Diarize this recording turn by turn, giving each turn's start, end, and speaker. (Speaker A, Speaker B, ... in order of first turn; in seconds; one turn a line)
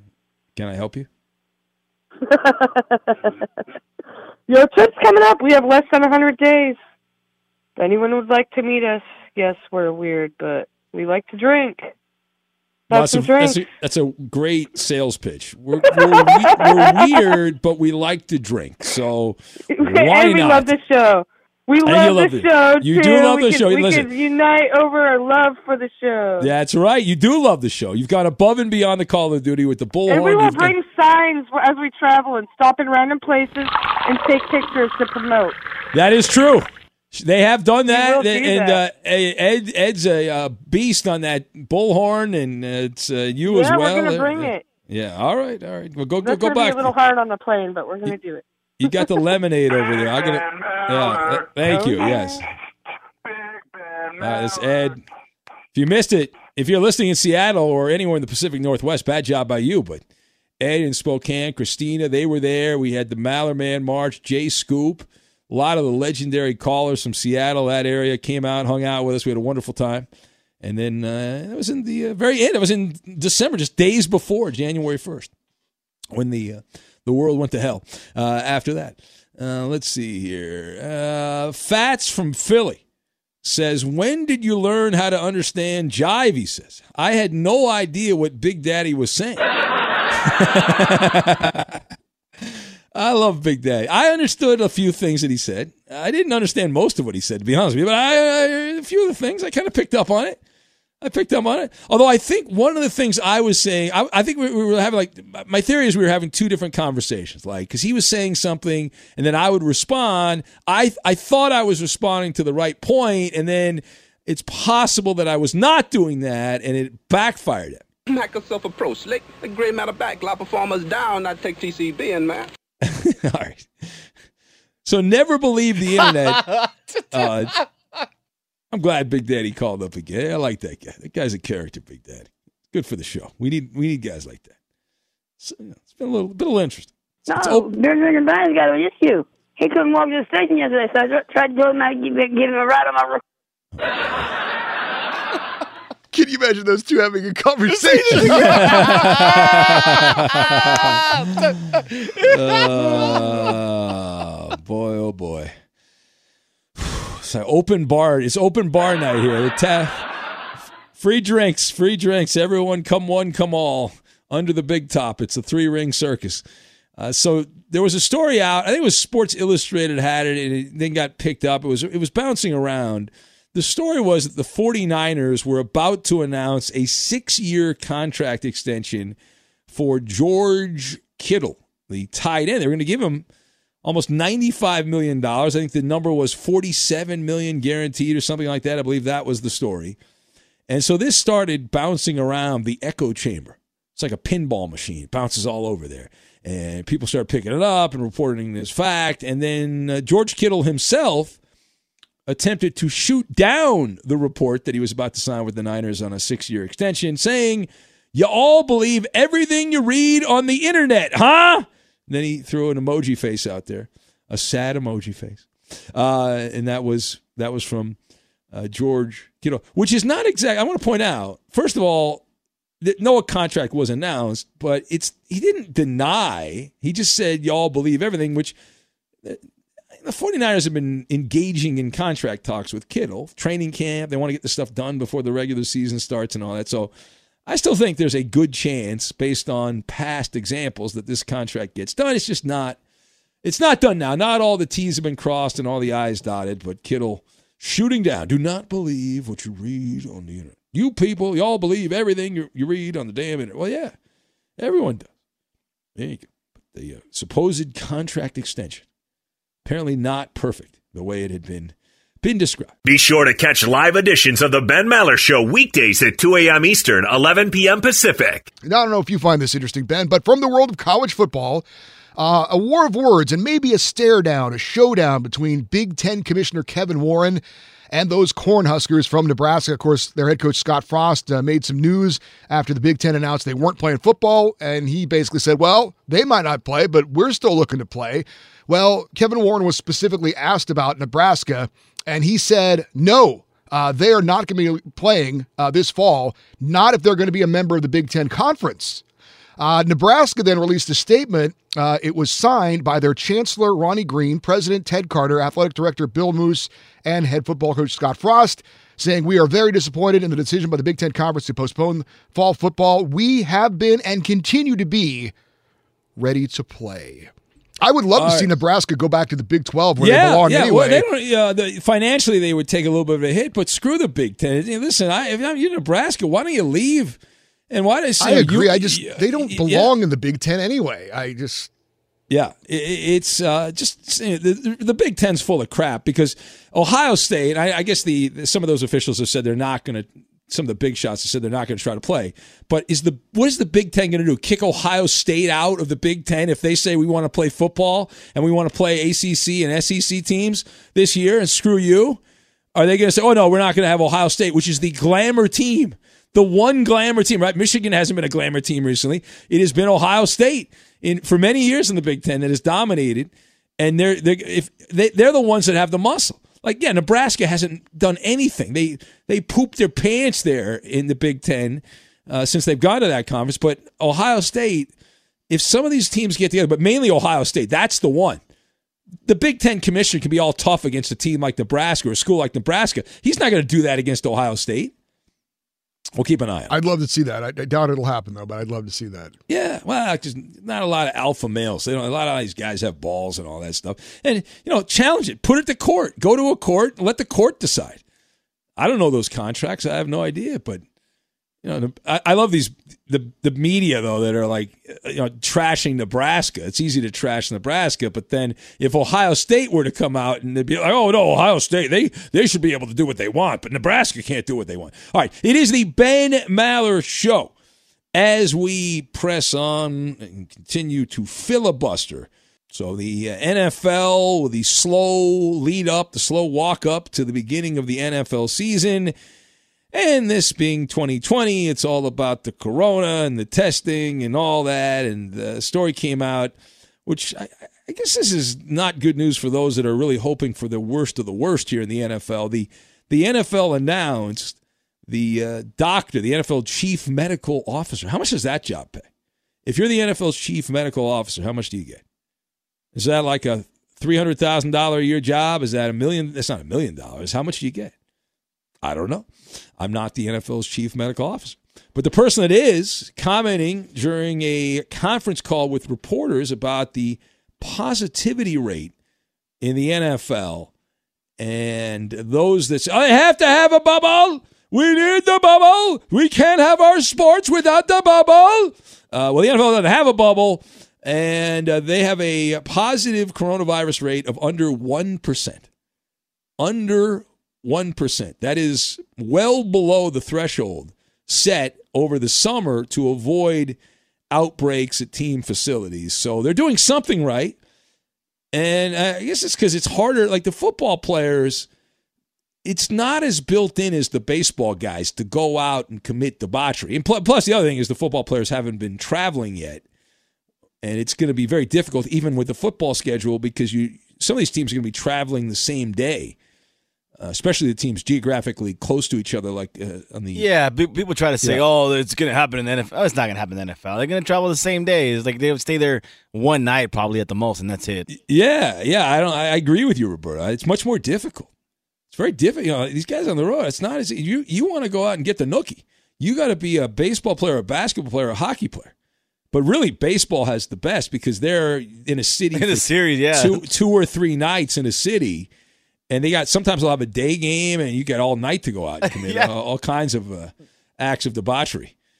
Speaker A: 0.6-1.1
Speaker B: 2.3-3.3
Speaker B: 4.5-6.8
Speaker B: 7.8-11.9
Speaker B: 12.9-13.7
Speaker A: 12.9-20.7
Speaker B: 15.9-17.2
Speaker B: 19.7-26.5
Speaker A: 21.8-24.1
Speaker A: 26.4-30.8
Speaker B: 30.1-35.6
Speaker A: 35.9-46.9
Speaker B: 37.9-38.8
Speaker B: 43.5-44.6
Speaker B: 46.2-48.5
Speaker A: 48.8-52.5
Speaker B: 51.6-52.4
Speaker A: 54.2-55.0
Speaker A: 55.7-60.0
Speaker A: 60.6-70.1
Speaker A: 70.6-75.3
Speaker A: 76.1-82.8
Speaker A: 83.4-89.4
Speaker A: 90.2-91.8
Speaker A: 92.9-100.4
Speaker A: 101.0-117.8
Speaker C: 118.1-122.5
Speaker A: 122.8-123.7
Speaker A: 124.8-126.5
Speaker A: 127.1-127.6
Speaker A: 128.7-134.5
Speaker A: 135.4-137.7
Speaker D: 137.3-143.2
Speaker A: 143.8-144.3
Speaker E: 146.1-149.2
Speaker A: 148.1-155.5
Speaker A: 156.8-160.1
Speaker A: 160.9-166.4
Speaker A: 167.0-179.2
Speaker A: 179.7-183.2
Speaker A: 183.8-190.0
Speaker A: 190.7-201.4
Speaker A: 202.3-218.0
Speaker A: 218.5-222.2
Speaker A: 222.8-228.6
Speaker A: 230.0-236.9
Speaker A: 237.5-242.8
Speaker A: 243.4-253.9
Speaker A: 254.6-255.1
Speaker A: 256.0-258.8
Speaker A: 259.6-262.8
Speaker F: 262.9-268.5
Speaker E: 268.6-299.0
Speaker E: 299.6-315.3
Speaker E: 316.2-317.3
Speaker E: 317.8-321.0
Speaker A: 318.1-318.5
Speaker A: 320.0-327.2
Speaker A: 327.7-329.9
Speaker E: 328.2-331.7
Speaker A: 332.3-352.2
Speaker A: 352.8-374.9
Speaker A: 375.5-378.4
Speaker A: 379.3-384.9
Speaker A: 386.2-386.7
Speaker E: 386.7-389.3
Speaker A: 389.5-398.0
Speaker A: 398.8-400.8
Speaker A: 401.6-417.5
Speaker A: 418.1-429.1
Speaker A: 429.9-436.5
Speaker A: 437.1-444.6
Speaker A: 445.1-449.1
Speaker A: 449.7-452.0
Speaker A: 452.9-457.9
Speaker A: 458.8-459.3
Speaker A: 459.8-468.9
Speaker A: 469.6-470.7
Speaker A: 471.4-485.6
Speaker A: 486.6-493.8
Speaker A: 494.3-497.6
Speaker A: 498.5-501.7
Speaker A: 502.6-509.8
Speaker A: 510.8-516.4
Speaker A: 517.2-520.5
Speaker G: 520.4-528.1
Speaker A: 528.1-531.5
Speaker A: 532.1-538.9
Speaker A: 539.5-545.5
Speaker G: 542.5-543.7
Speaker A: 546.1-551.9
Speaker G: 549.0-549.5